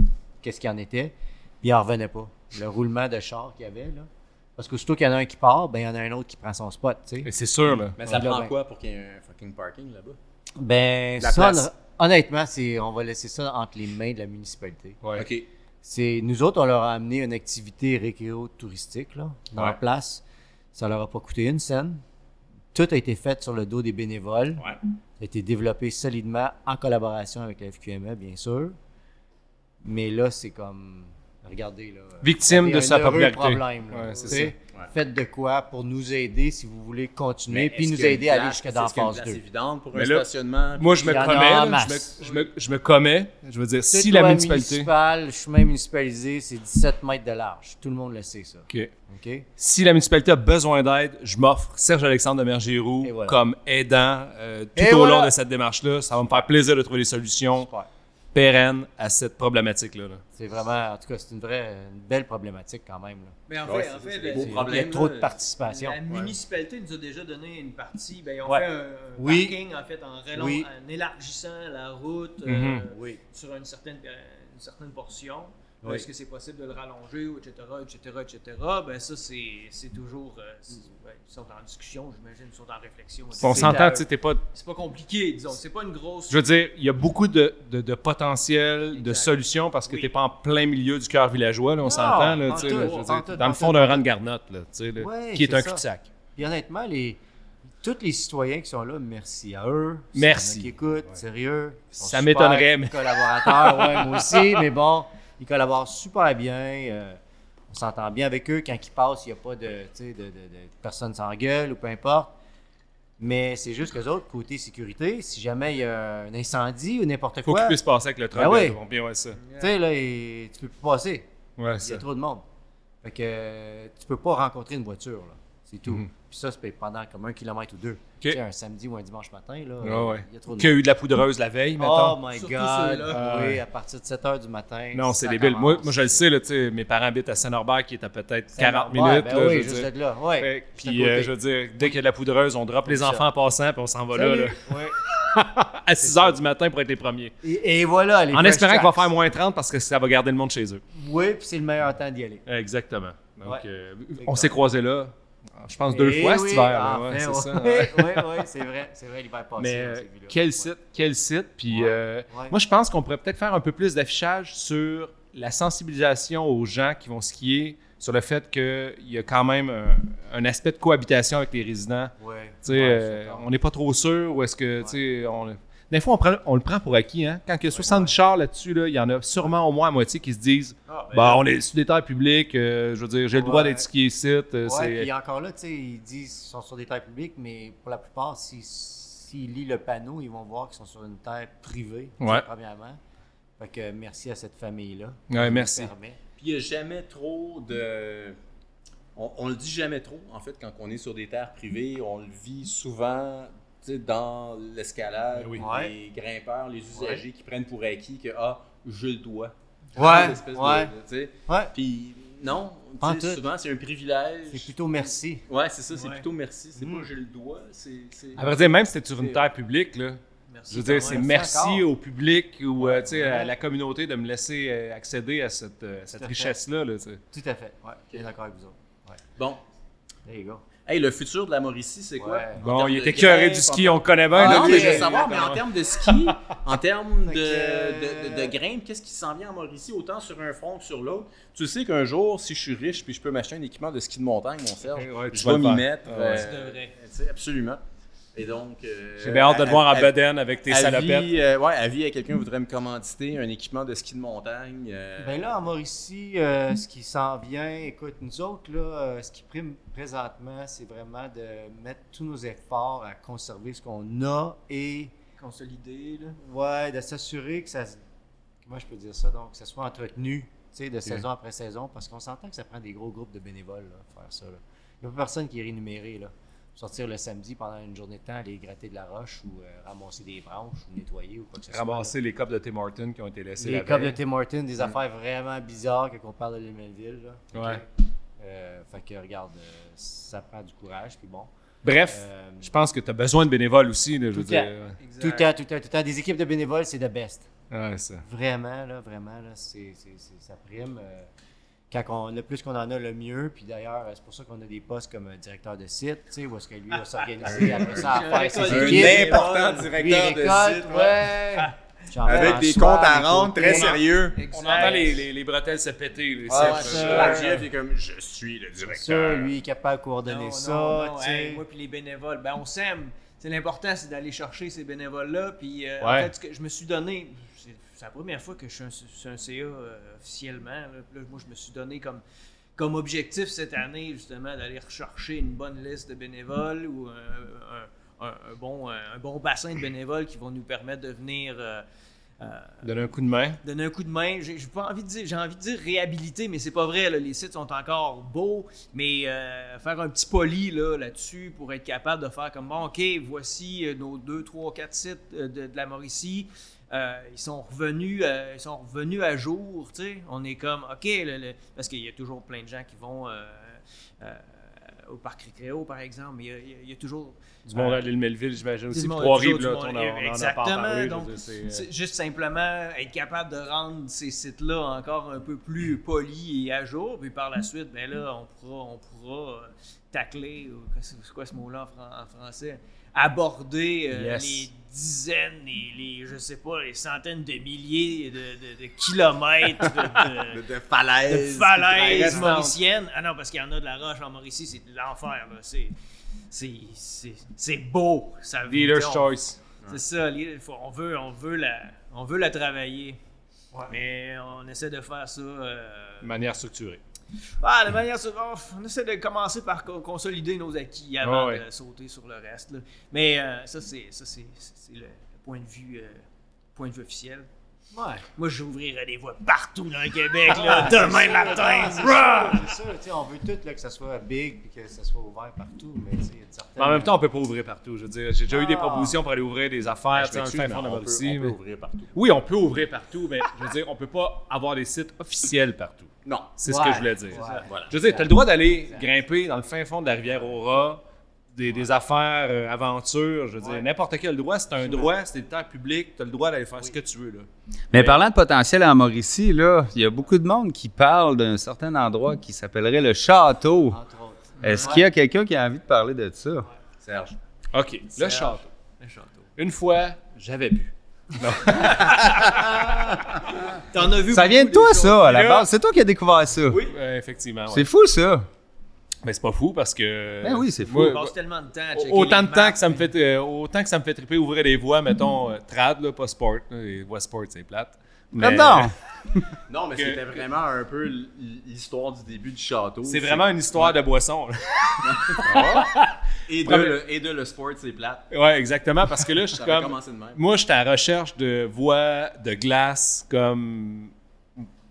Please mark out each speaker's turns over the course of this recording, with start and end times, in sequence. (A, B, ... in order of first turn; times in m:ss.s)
0:00.4-0:07.3 A
0:07.2-0:08.0 B
0:08.0-0:10.2 C
0:08.0-0:08.5 A
0:10.6-0:15.0 A
0:11.2-0:11.7 B
0:15.0-0:15.3 B
0:15.2-0:15.5 C
0:15.8-0:22.0 A
0:22.7-0:24.7 A
0:25.2-0:28.8 A
0:29.8-0:39.4 A
0:32.2-0:34.6 B
0:37.5-0:41.4 C
0:39.9-0:44.9 B
0:41.0-0:42.2 A
0:43.9-0:49.5 A
0:49.6-0:57.7 B
0:53.0-0:53.4 A
0:54.8-0:55.4 A
0:58.3-1:00.2 B
1:00.4-1:03.4 A
1:03.5-1:26.4 D
1:03.6-1:05.3 C
1:04.3-1:06.0 A
1:06.1-1:06.3 C
1:08.4-1:09.6 A
1:10.3-1:10.7 A
1:12.4-1:12.9 B
1:12.9-1:13.2 A
1:23.4-1:24.0 A
1:23.4-1:24.4 B
1:26.3-1:36.1 B
1:28.9-1:30.1 D
1:31.8-1:34.0 A
1:31.8-1:33.1 D
1:35.0-1:37.2 A
1:37.8-1:47.2 A
1:40.2-1:40.7 B
1:41.9-1:44.5 B
1:47.7-1:52.4 A
1:53.2-1:57.8 A
1:57.4-1:59.4 B
1:58.3-1:58.8 A
1:59.4-1:59.7 D
1:59.6-2:01.3 A
2:01.6-2:02.0 B
2:01.8-2:02.4 A
2:03.0-2:10.8 A
2:05.9-2:06.1 B
2:09.8-2:12.2 B
2:11.8-2:16.2 A
2:12.3-2:13.2 D
2:13.1-2:13.6 B
2:14.9-2:27.3 B
2:18.5-2:22.0 A
2:22.8-2:23.3 A
2:24.1-2:25.0 A
2:26.0-2:26.4 A
2:27.4-2:29.1 A
2:28.3-2:30.8 B
2:30.9-2:32.4 A
2:32.5-2:38.4 B
2:34.2-2:34.6 A
2:35.9-2:40.7 A
2:39.6-3:05.1 B
2:41.7-2:42.6 A
2:52.2-2:53.5 A
2:57.7-2:58.2 A
3:01.1-3:01.4 A
3:03.3-3:03.9 A
3:04.6-3:13.0 A
3:12.2-3:12.5 B
3:13.6-3:16.2 A
3:15.3-3:15.9 B
3:16.4-3:18.4 C
3:19.2-3:34.7 C
3:25.4-3:25.6 B
3:25.6-3:25.9 A
3:26.9-3:27.2 A
3:30.0-3:30.9 A
3:31.5-3:31.7 A
3:33.0-3:33.4 A
3:34.5-3:35.4 A
3:35.5-3:38.6 C
3:35.9-3:36.3 D
3:36.8-3:37.1 A
3:38.4-3:47.2 B
3:40.5-3:41.3 D
3:40.9-3:41.9 A
3:42.8-3:43.6 A
3:46.2-3:46.6 A
3:47.3-3:49.2 A
3:49.4-3:49.6 C
3:50.3-3:50.6 A
3:50.8-4:07.8 C
3:52.2-3:52.6 A
3:52.6-3:56.4 B
3:54.3-3:55.4 A
3:57.2-3:58.5 A
4:05.0-4:06.5 B
4:06.3-4:07.0 D
4:08.3-4:10.1 C
4:09.2-4:11.3 B
4:10.7-4:15.5 C
4:15.2-4:25.1 A
4:25.4-4:26.4 D
4:26.4-4:28.0 A
4:28.6-4:42.2 A
4:41.7-4:44.2 B
4:43.6-4:47.8 A
4:47.5-4:47.8 B
4:48.4-4:51.5 A
4:51.8-4:55.0 B
4:52.0-4:52.7 A
4:54.3-4:57.5 A
4:55.0-4:55.5 D
4:57.7-4:58.2 B
4:58.2-5:01.3 A
5:01.9-5:14.0 A
5:07.4-5:09.9 D
5:08.6-5:11.3 C
5:11.4-5:11.8 D
5:12.3-5:14.4 C
5:12.3-5:12.7 D
5:13.6-5:15.3 D
5:14.5-5:17.6 B
5:16.5-5:19.5 C
5:16.5-5:17.6 A
5:16.7-5:17.5 D
5:18.8-5:21.6 A
5:20.2-5:32.2 D
5:26.0-5:26.3 B
5:32.8-5:41.8 D
5:42.4-5:42.9 D
5:42.8-5:43.6 B
5:43.6-6:08.0 D
6:07.7-6:11.9 B
6:08.9-6:30.6 D
6:24.1-6:24.7 B
6:30.4-6:32.6 C
6:31.2-6:35.9 D
6:31.9-6:32.8 B
6:36.5-6:43.2 D
6:38.7-6:39.6 B
6:43.9-6:46.4 D
6:46.2-6:47.0 B
6:47.6-6:57.5 D
6:51.2-6:51.6 B
6:57.9-6:58.2 A
6:58.2-7:02.8 D
7:00.5-7:07.2 A
7:06.8-7:11.6 B
7:08.5-7:09.2 A
7:10.1-7:12.1 C
7:12.1-7:28.2 B
7:16.2-7:16.6 C
7:16.6-7:19.1 A
7:17.2-7:17.7 D
7:17.6-7:18.0 C
7:27.9-7:34.0 E
7:33.9-7:34.7 A
7:34.6-7:36.7 E
7:34.7-7:35.1 D
7:37.0-7:37.4 C
7:37.7-7:38.7 B
7:38.1-7:39.5 D
7:39.6-7:43.6 B
7:43.9-7:45.5 D
7:44.3-7:46.8 E
7:45.3-7:45.6 B
7:46.7-7:47.9 B
7:47.7-7:48.5 E
7:49.2-7:51.3 B
7:50.4-7:51.2 E
7:50.8-7:53.1 D
7:51.9-7:59.0 B
7:58.4-7:59.4 E
7:59.7-8:03.9 C
8:00.0-8:00.4 B
8:03.0-8:07.0 B
8:05.0-8:05.9 C
8:06.5-8:08.2 C
8:08.3-8:14.1 B
8:09.5-8:10.4 C